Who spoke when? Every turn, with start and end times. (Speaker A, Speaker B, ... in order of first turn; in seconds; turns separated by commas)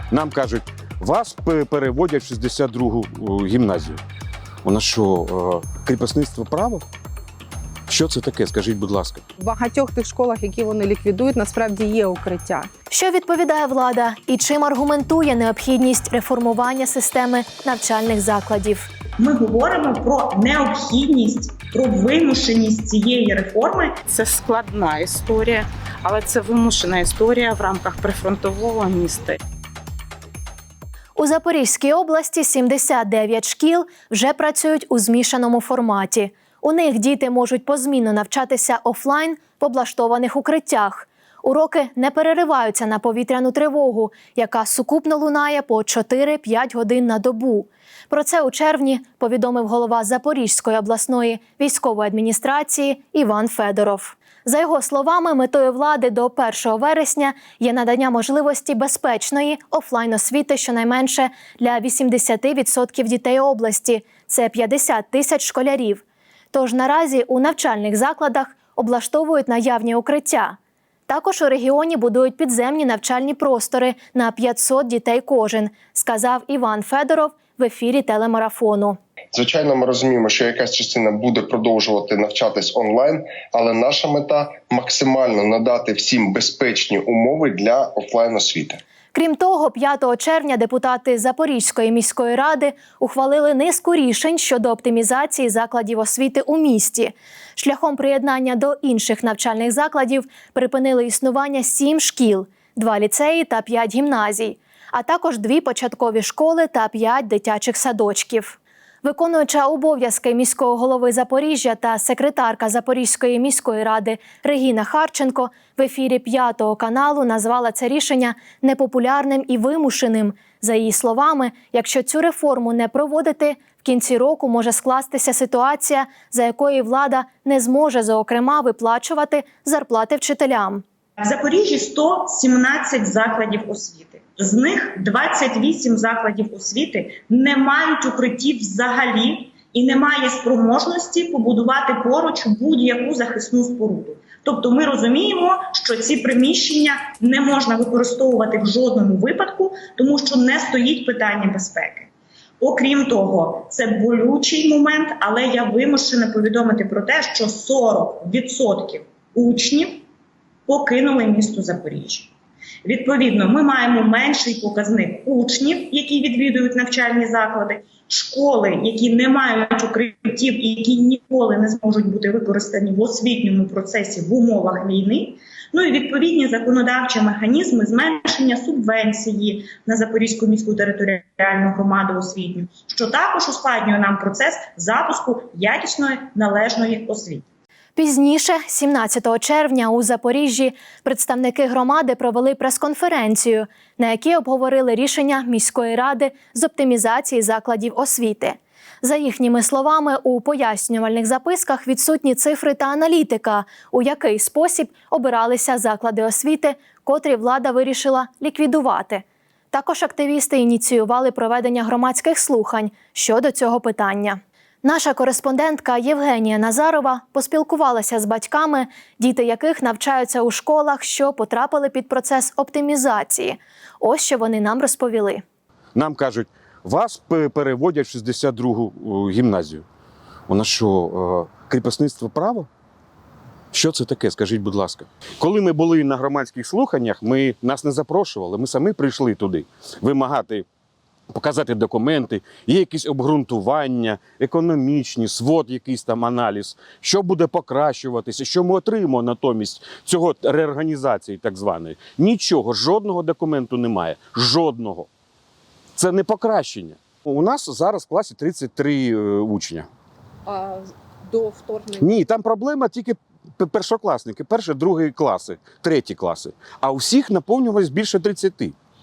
Speaker A: 0.1-4.0, Speaker A: 4.6-6.8, Speaker A: 7.9-9.2, Speaker B: 9.4-12.7, Speaker C: 12.9-18.9, Speaker D: 19.2-24.0, Speaker E: 24.1-29.4, Speaker C: 31.2-70.6, Speaker C: 71.1-79.0, Speaker F: 79.3-88.8, Speaker C: 89.1-130.8, Speaker D: 131.2-160.0, Speaker D: 160.7-162.3, Speaker D: 162.8-187.4, Speaker C: 187.9-225.4, Speaker A: 225.9-229.8, Speaker A: 230.5-232.7, Speaker A: 233.7-240.6, Speaker A: 241.3-255.1, Speaker A: 255.9-259.9, Speaker A: 262.0-268.7